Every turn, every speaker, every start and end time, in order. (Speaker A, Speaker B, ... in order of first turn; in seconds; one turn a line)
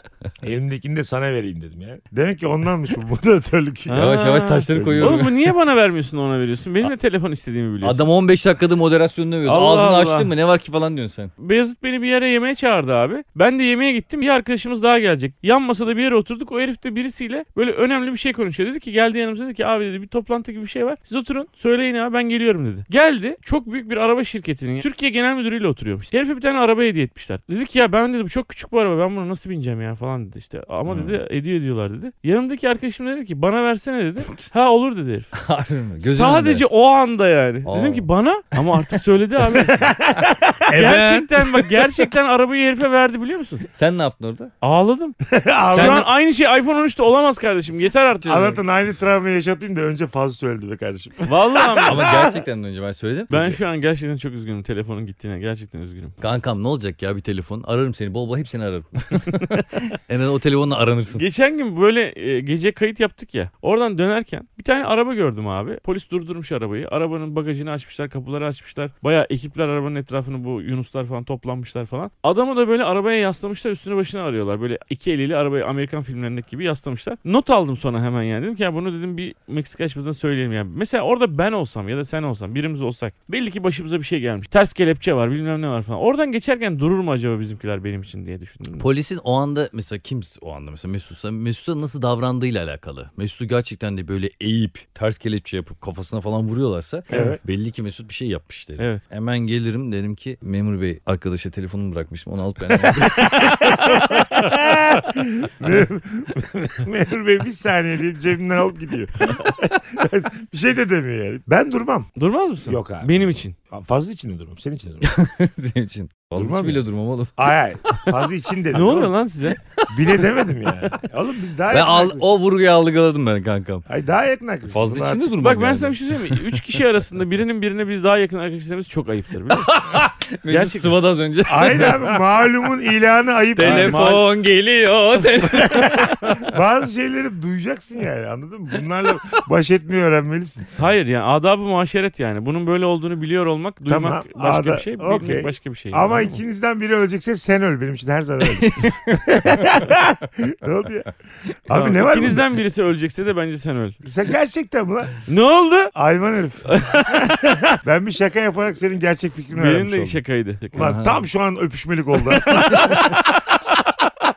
Speaker A: 0.4-4.1
Speaker B: 3.9-8.0
Speaker C: 4.0-5.5
Speaker A: 4.7-5.2
Speaker C: 7.8-11.3
Speaker B: 9.4-10.3
Speaker B: 11.4-35.3
Speaker C: 30.9-31.2
Speaker C: 35.3-36.6
Speaker B: 36.0-39.8
Speaker C: 37.7-38.6
Speaker A: 39.5-40.9
Speaker C: 40.7-41.7
Speaker B: 40.7-43.6
Speaker C: 43.7-44.5
Speaker B: 44.6-48.6
Speaker A: 45.3-46.1
Speaker C: 45.7-46.1
Speaker A: 48.2-52.4
Speaker B: 51.3-52.1
Speaker C: 51.9-53.6
Speaker B: 53.3-56.2
Speaker C: 56.2-61.2
Speaker B: 59.3-59.6
Speaker B: 61.1-88.9
Speaker C: 88.8-103.7
Speaker A: 97.1-97.4
Speaker B: 102.9-104.7
Speaker A: 103.6-112.1
Speaker B: 112.2-113.5
Speaker A: 112.7-115.1
Speaker C: 115.0-118.3
Speaker A: 116.3-116.8
Speaker A: 117.4-119.1
Speaker B: 118.7-119.6
Speaker C: 119.6-121.0
Speaker A: 119.9-122.3
Speaker C: 121.7-123.9
Speaker A: 123.9-125.3
Speaker C: 124.7-126.8
Speaker B: 125.4-129.7
Speaker C: 129.5-132.2
Speaker B: 130.5-130.9
Speaker A: 131.5-134.1
Speaker C: 133.6-136.5
Speaker B: 133.6-134.2
Speaker A: 135.4-140.7
Speaker B: 140.8-146.4
Speaker A: 143.9-151.1
Speaker C: 148.5-149.2
Speaker A: 151.7-152.4
Speaker B: 151.7-154.0
Speaker A: 154.0-155.2
Speaker B: 155.3-155.9
Speaker A: 155.9-160.2
Speaker B: 156.7-157.5
Speaker B: 159.5-160.9
Speaker A: 160.7-164.1
Speaker C: 160.8-161.2
Speaker B: 162.4-163.0